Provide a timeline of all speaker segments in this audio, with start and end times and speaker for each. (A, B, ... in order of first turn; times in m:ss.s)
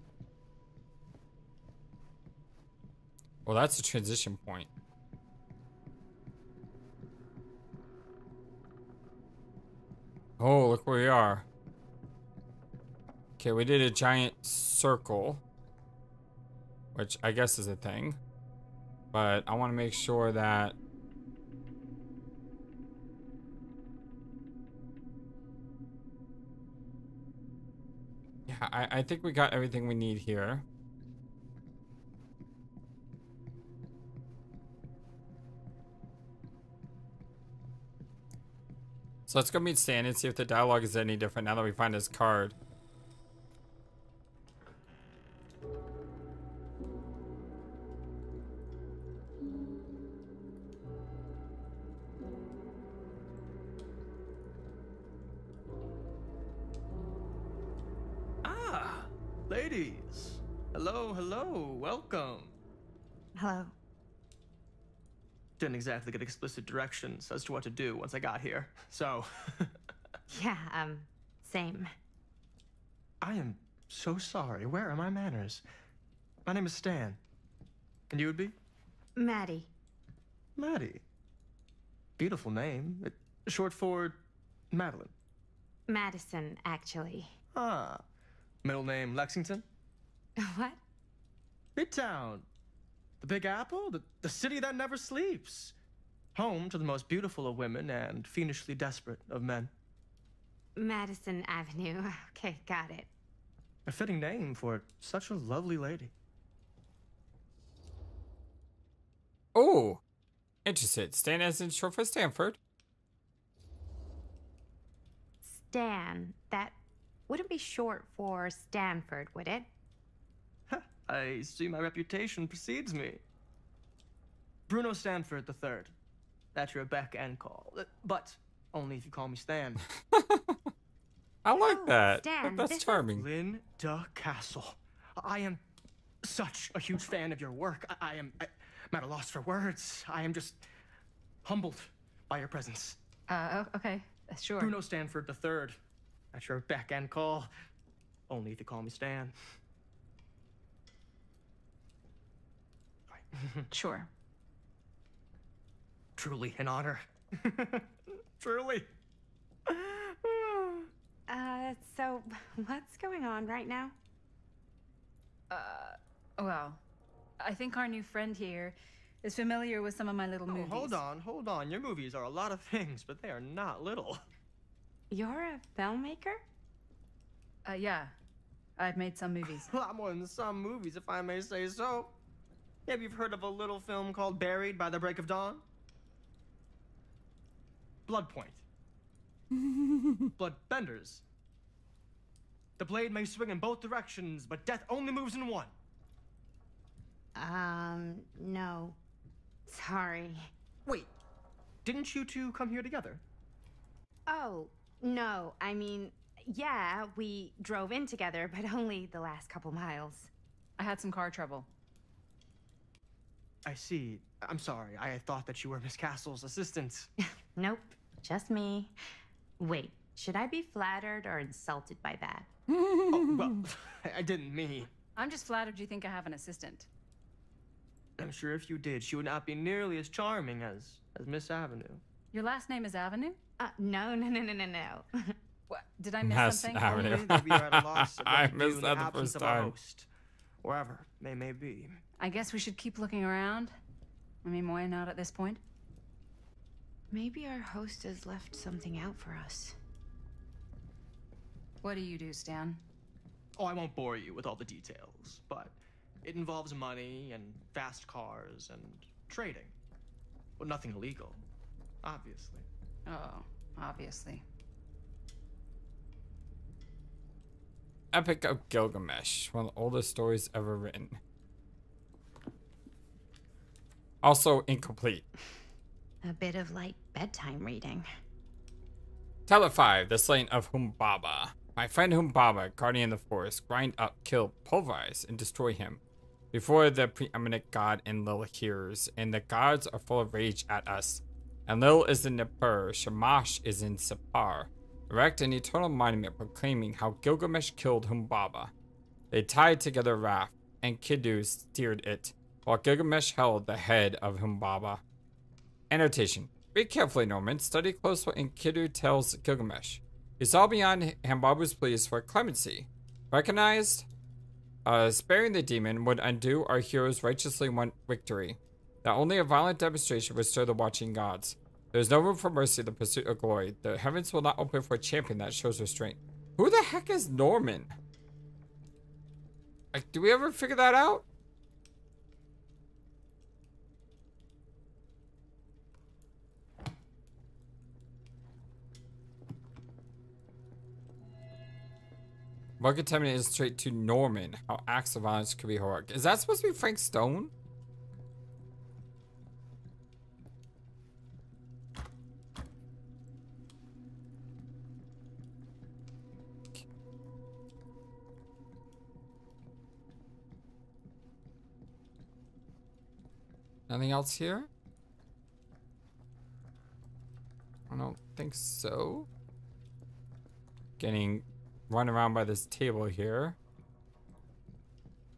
0:03.4-0:04.7 A
0:10.4-0:11.4 A
0:13.4-0:15.4 A
0:16.9-0:18.2 A
0:19.1-0:20.8 A
0:28.5-0:30.6 A
0:39.3-0:42.6 A
0:58.4-1:02.5 B
1:03.4-1:03.7 C
1:05.6-1:09.7 B
1:10.3-1:11.9 C
1:13.2-1:15.6 B
1:16.4-1:17.2 B
1:18.1-1:18.5 B
1:19.2-1:19.7 C
1:20.6-1:21.0 B
1:22.2-1:25.1 B
1:25.9-1:27.3 C
1:27.5-1:28.0 B
1:28.6-1:29.6 B
1:30.4-1:30.8 C
1:31.8-1:32.4 B
1:33.2-1:35.7 B
1:36.3-1:39.7 B
1:40.8-1:43.1 C
1:43.8-1:46.1 B
1:49.5-1:50.0 A
1:50.6-1:52.6 A
1:55.4-1:56.8 C
1:57.3-1:59.7 C
2:00.7-2:03.2 B
2:04.7-2:05.9 B
2:06.5-2:09.8 B
2:10.1-2:10.6 A
2:11.4-2:13.3 A
2:11.6-2:12.3 C
2:11.8-2:13.0 D
2:13.1-2:15.6 B
2:16.2-2:20.6 B
2:21.4-2:23.0 B
2:23.3-2:24.8 D
2:24.6-2:25.8 B
2:26.3-2:27.5 B
2:28.3-2:29.3 B
2:33.1-2:33.7 B
2:33.7-2:34.1 D
2:36.2-2:38.9 B
2:39.7-2:40.9 B
2:41.3-2:44.0 C
2:45.5-2:46.8 D
2:47.4-2:51.0 D
2:50.4-2:54.2 B
2:55.1-2:56.4 C
2:57.6-2:58.1 D
2:58.8-2:59.7 D
2:59.6-3:02.1 B
3:02.8-3:05.6 B
3:08.1-3:08.6 B
3:10.4-3:11.2 B
3:12.8-3:15.7 B
3:17.4-3:19.0 C
3:19.7-3:20.5 C
3:21.8-3:23.2 B
3:24.3-3:30.3 C
3:30.8-3:31.7 D
3:33.6-3:37.1 B
3:37.2-3:38.9 C
3:39.6-3:42.5 C
3:42.7-3:43.4 A
3:43.1-3:44.9 B
3:45.2-3:46.9 D
3:48.2-3:52.0 B
3:52.3-3:53.4 D
3:53.6-3:55.3 C
3:55.7-3:57.2 D
3:56.2-3:59.7 A
3:56.8-4:00.1 B
4:00.6-4:02.0 B
4:02.2-4:03.7 D
4:04.4-4:05.6 D
4:07.1-4:09.8 C
4:11.8-4:12.8 D
4:13.6-4:19.7 B
4:20.6-4:21.4 B
4:22.0-4:22.6 B
4:23.1-4:24.4 D
4:28.1-4:31.2 A
4:34.2-4:35.3 A
4:36.2-4:38.0 C
4:39.5-4:46.0 A
4:46.5-4:58.7 A
4:59.3-5:05.0 A
5:05.9-5:14.1 A
5:14.8-5:27.9 A
5:29.9-5:31.2 A
5:42.8-5:47.5 A
6:03.9-6:04.7 A
6:07.9-6:09.3 A
6:11.0-6:13.6 A